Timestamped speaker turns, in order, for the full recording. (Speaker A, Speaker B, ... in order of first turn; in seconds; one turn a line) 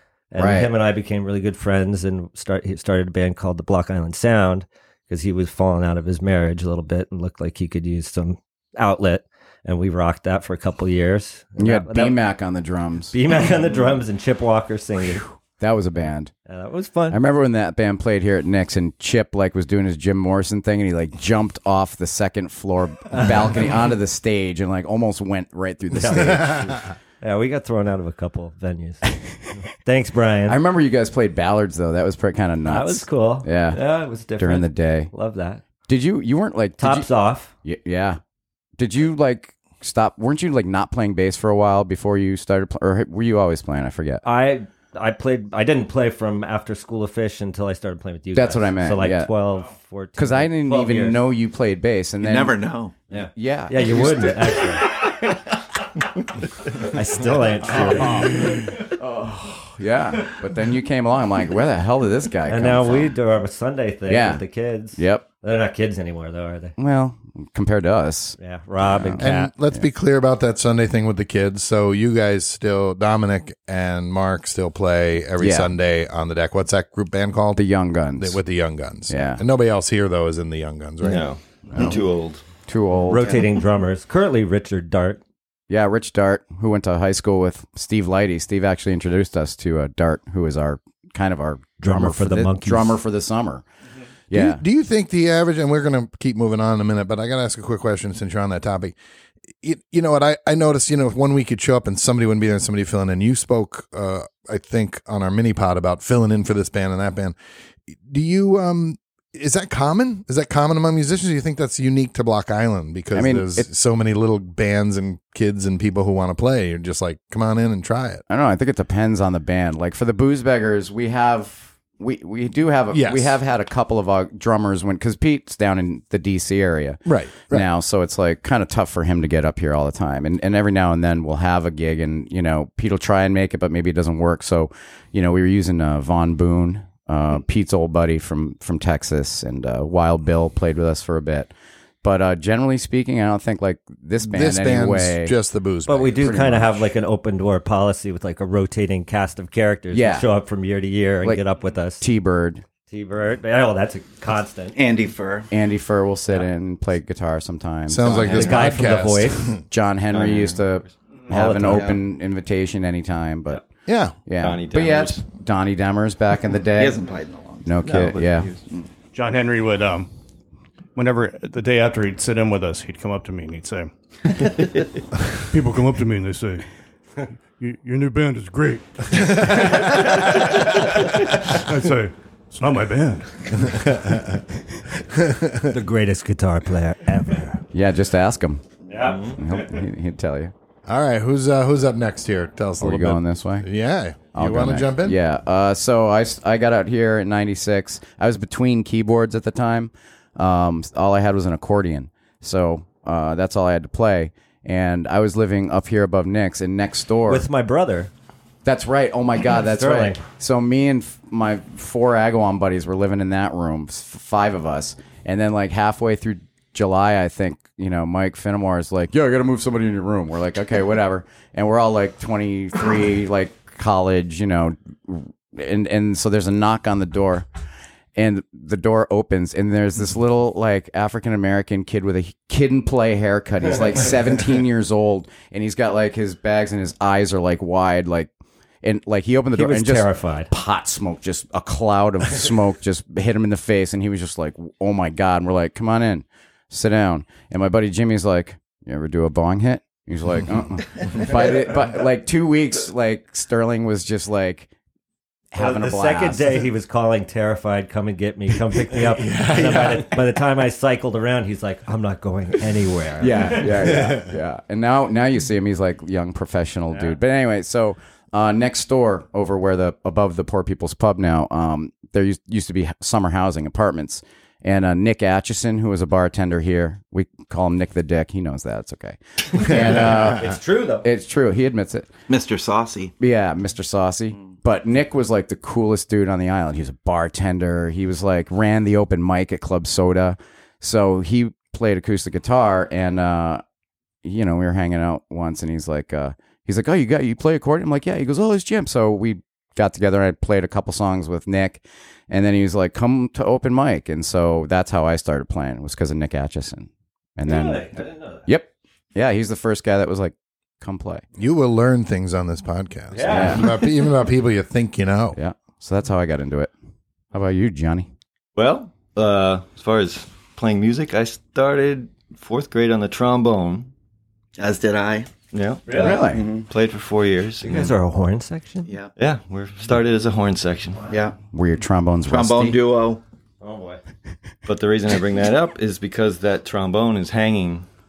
Speaker A: 0.3-12.2
Speaker B: 0.4-0.7
Speaker B: 11.6-13.2
Speaker A: 13.1-15.3
Speaker B: 15.6-16.3
Speaker A: 16.5-17.2
Speaker B: 17.1-26.7
Speaker A: 25.9-30.6
Speaker B: 30.5-33.8
Speaker A: 32.7-35.6
Speaker B: 34.4-35.1
Speaker B: 35.9-37.1
Speaker A: 36.8-37.5
Speaker B: 37.6-38.2
Speaker B: 38.8-44.2
Speaker A: 44.2-51.2
Speaker B: 48.4-49.3
Speaker B: 50.2-52.6
Speaker C: 52.2-53.0
Speaker A: 53.1-55.4
Speaker B: 53.3-54.7
Speaker A: 56.7-58.5
Speaker B: 57.7-63.1
Speaker A: 62.5-66.8
Speaker B: 64.1-64.4
Speaker B: 65.0-65.2
Speaker B: 66.8-69.9
Speaker A: 68.4-69.5
Speaker D: 69.2-77.7
Speaker B: 75.4-75.7
Speaker B: 77.6-78.4
Speaker D: 78.2-82.0
Speaker B: 79.1-79.4
Speaker E: 81.0-82.5
Speaker B: 82.7-83.5
Speaker A: 83.1-85.2
Speaker B: 85.7-93.6
Speaker A: 91.8-93.0
Speaker B: 94.3-94.6
Speaker D: 94.3-99.0
Speaker D: 99.6-107.4
Speaker D: 107.9-118.2
Speaker B: 113.1-113.7
Speaker B: 118.3-141.5
Speaker D: 122.9-123.3
Speaker D: 127.0-127.7
Speaker B: 142.0-145.4
Speaker D: 144.2-146.7
Speaker A: 145.9-152.0
Speaker B: 146.2-146.7
Speaker B: 149.9-150.3
Speaker B: 152.0-152.6
Speaker A: 152.9-154.8
Speaker C: 154.8-155.5
Speaker B: 155.5-163.7
Speaker D: 157.9-159.6
Speaker E: 158.0-158.7
Speaker A: 158.3-159.5
Speaker E: 160.1-160.9
Speaker A: 161.3-162.0
Speaker D: 163.9-164.2
Speaker B: 164.2-167.0
Speaker E: 164.4-165.2
Speaker C: 166.8-167.7
Speaker B: 167.6-168.5
Speaker E: 167.8-168.6
Speaker F: 169.1-170.1
Speaker F: 170.9-173.9
Speaker E: 174.4-175.0
Speaker F: 175.5-176.7
Speaker F: 177.6-184.0
Speaker D: 179.5-179.8
Speaker D: 183.7-184.4
Speaker D: 185.0-185.8
Speaker A: 185.6-187.6
Speaker B: 187.7-188.7
Speaker A: 188.9-189.4
Speaker E: 189.0-189.4
Speaker B: 189.3-190.5
Speaker D: 190.9-195.2
Speaker B: 192.8-193.7
Speaker B: 194.3-207.4
Speaker A: 207.3-208.1
Speaker B: 208.7-227.5
Speaker A: 209.7-210.2
Speaker B: 228.2-238.3
Speaker B: 238.8-254.7
Speaker A: 239.6-240.5
Speaker B: 255.5-256.5
Speaker A: 255.6-264.1
Speaker D: 259.2-260.0
Speaker B: 263.2-282.1
Speaker D: 263.9-264.2
Speaker A: 279.7-281.1
Speaker C: 282.3-283.1
Speaker B: 283.2-293.6
Speaker B: 294.2-311.2
Speaker A: 307.4-308.5
Speaker D: 311.4-315.4
Speaker A: 313.1-313.8
Speaker B: 313.3-313.6
Speaker B: 315.4-316.7
Speaker B: 317.3-318.1
Speaker E: 318.6-323.9
Speaker C: 324.6-325.3
Speaker E: 325.5-328.0
Speaker A: 325.9-326.3
Speaker B: 326.0-326.5
Speaker A: 327.6-328.9
Speaker C: 328.9-329.1
Speaker E: 329.2-331.1
Speaker C: 331.1-331.4
Speaker B: 331.5-332.8
Speaker C: 332.2-333.2
Speaker A: 333.6-334.0
Speaker E: 334.6-337.9